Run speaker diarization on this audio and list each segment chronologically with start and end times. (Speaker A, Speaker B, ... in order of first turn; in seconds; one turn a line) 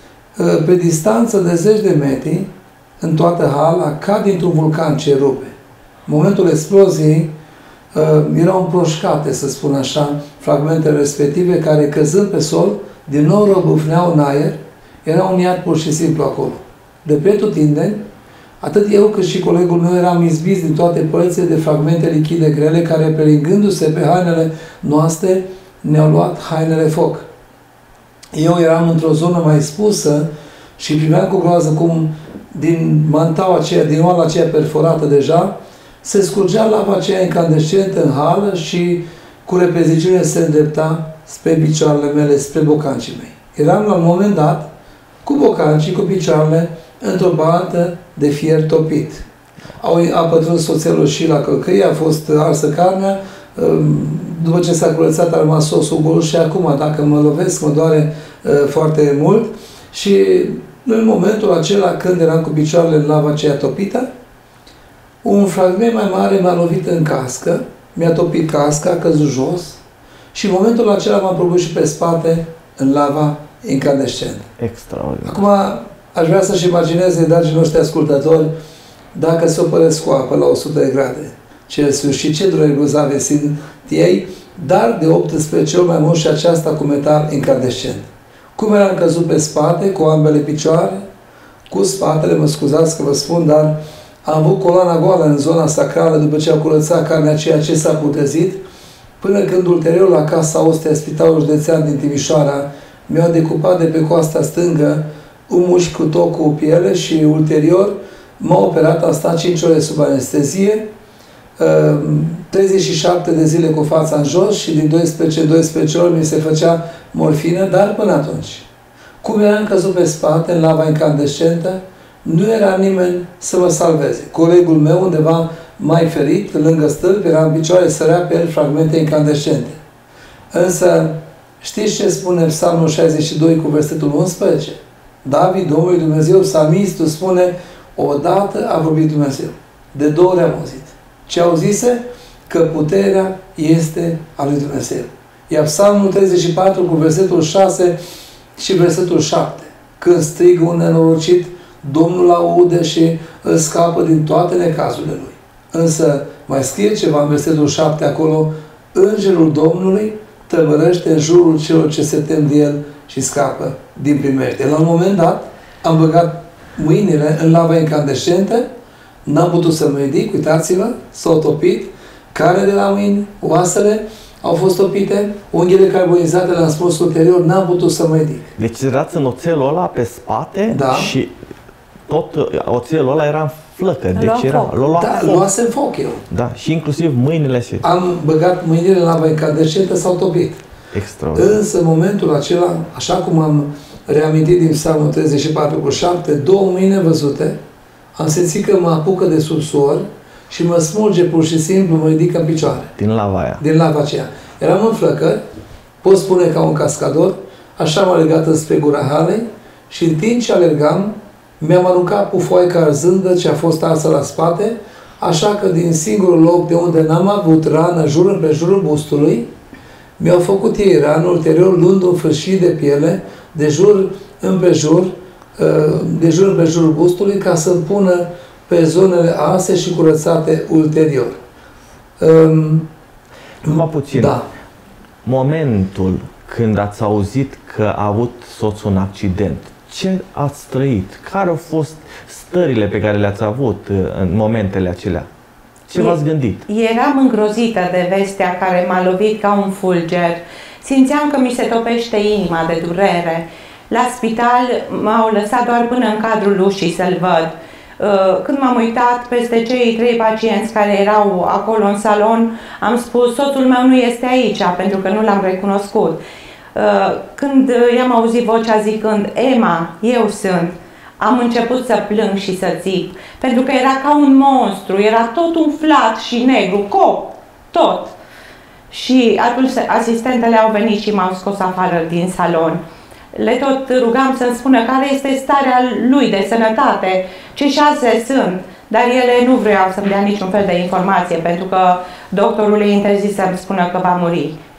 Speaker A: 0.3-5.5
Speaker A: 6.1-7.3
Speaker A: 7.9-18.0
Speaker A: 18.6-27.3
Speaker A: 28.3-44.7
Speaker A: 45.2-49.2
Speaker A: 49.8-64.1
Speaker A: 65.2-69.8
Speaker A: 70.3-74.5
Speaker B: 74.6-75.4
Speaker A: 75.2-78.5
Speaker A: 79.1-91.0
Speaker A: 91.7-98.6
Speaker A: 99.2-110.9
Speaker A: 111.6-118.7
Speaker A: 119.2-129.8
Speaker A: 130.5-148.0
Speaker A: 148.6-168.7
Speaker A: 169.2-178.5
Speaker B: 178.6-181.3
Speaker A: 180.7-181.1
Speaker B: 182.1-185.5
Speaker C: 184.2-184.8
Speaker A: 185.0-186.2
Speaker B: 186.3-187.8
Speaker A: 187.8-190.6
Speaker B: 190.9-191.6
Speaker A: 191.3-197.6
Speaker A: 198.2-202.9
Speaker B: 203.0-203.6
Speaker A: 203.6-205.4
Speaker A: 206.0-219.5
Speaker A: 220.2-231.4
Speaker A: 232.2-232.9
Speaker B: 233.6-234.4
Speaker A: 233.6-234.4
Speaker B: 235.2-245.3
Speaker B: 245.9-246.7
Speaker C: 245.9-266.2
Speaker C: 266.7-278.1
Speaker C: 278.9-282.8
Speaker C: 283.3-294.6